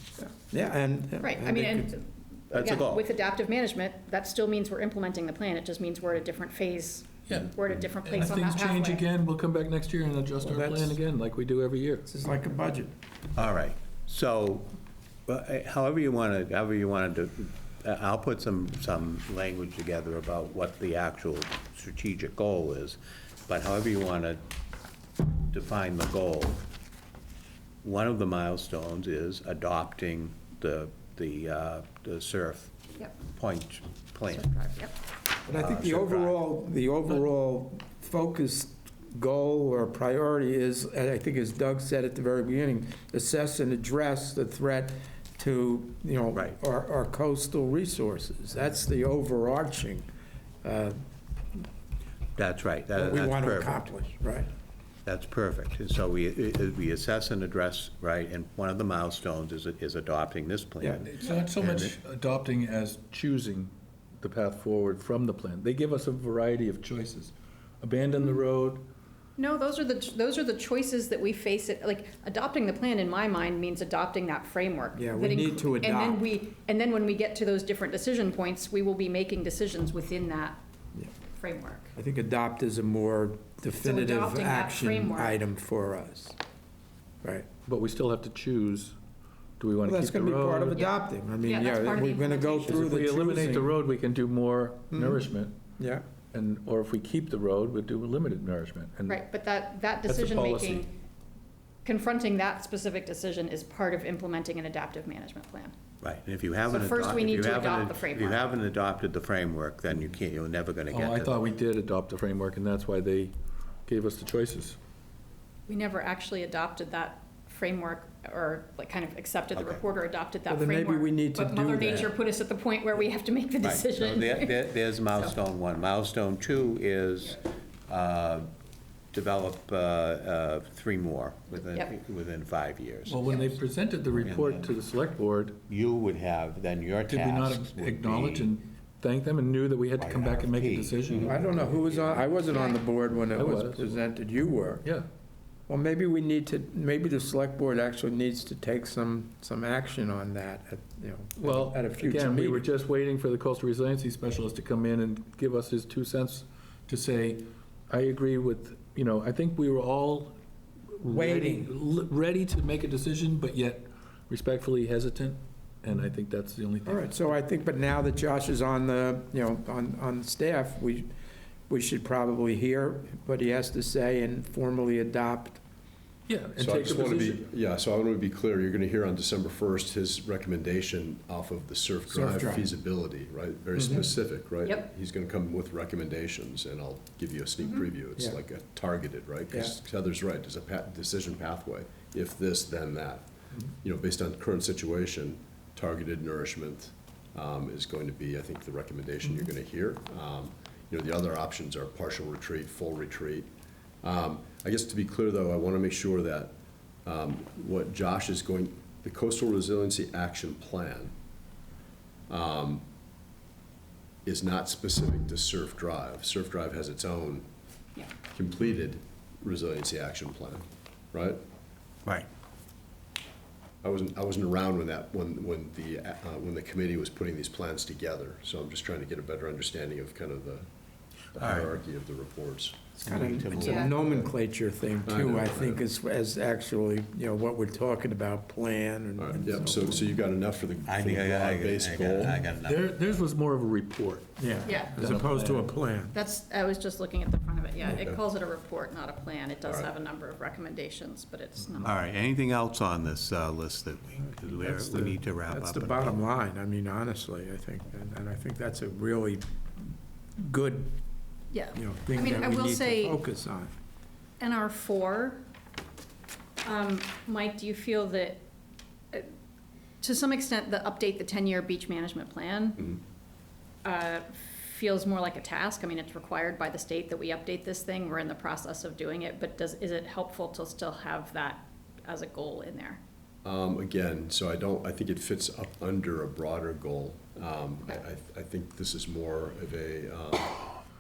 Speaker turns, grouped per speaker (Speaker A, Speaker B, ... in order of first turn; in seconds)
Speaker A: 0.3-1.9, 10.4-11.0, 12.1-12.9, 35.5-50.1, 50.6-51.0, 53.0-54.5, 75.0-76.2, 82.0-86.4, 89.8-93.7, 94.9-95.3, 95.8-96.0, 120.5-122.2, 141.2-144.9, 145.7-152.7, 161.1-161.7, 166.9-171.1, 171.7-175.6, 182.1-182.7, 233.1-240.1, 244.4-246.2, 254.2-259.4, 260.4-261.0, 261.8-263.7
Speaker B: 1.2-9.1, 34.3-35.0, 69.4-80.6, 81.3-81.9, 83.8-85.4, 90.8-92.8, 99.1-101.0, 101.8-105.8, 106.7-108.6, 115.7-125.3, 131.5-131.9, 142.5-142.8, 233.6-233.9, 244.7-245.0, 246.1-251.9, 261.5-263.2, 264.4-265.4, 266.6-268.4, 270.0-273.0, 273.8-283.0
Speaker C: 2.5-3.0, 13.3-14.7, 15.3-24.4, 25.5-26.6, 27.8-32.7, 33.2-34.5, 35.5-36.4, 52.4-53.9, 55.0-61.9, 106.0-111.4, 119.5-119.8, 123.6-128.5, 129.1-133.3, 134.1-134.7, 135.7-138.5, 140.0-142.3, 231.4-231.8, 233.0-233.8, 240.9-242.8, 251.8-256.2
Speaker D: 7.3-12.1, 61.1-68.9, 87.7-89.0, 89.6-90.8, 92.7-95.6, 96.3-99.2, 100.1-100.9, 110.9-114.8, 133.1-135.6, 137.1-141.3, 143.3-144.0, 151.4-160.4, 161.0-167.1, 176.3-177.4, 242.2-245.7
Speaker E: 176.6-203.5, 204.0-206.5, 207.1-211.1, 212.3-212.8, 214.2-217.5, 218.3-221.4, 223.8-230.7, 231.3-234.3, 235.1-235.8, 239.2-242.4, 247.9-248.2, 249.6-249.9, 283.4-290.7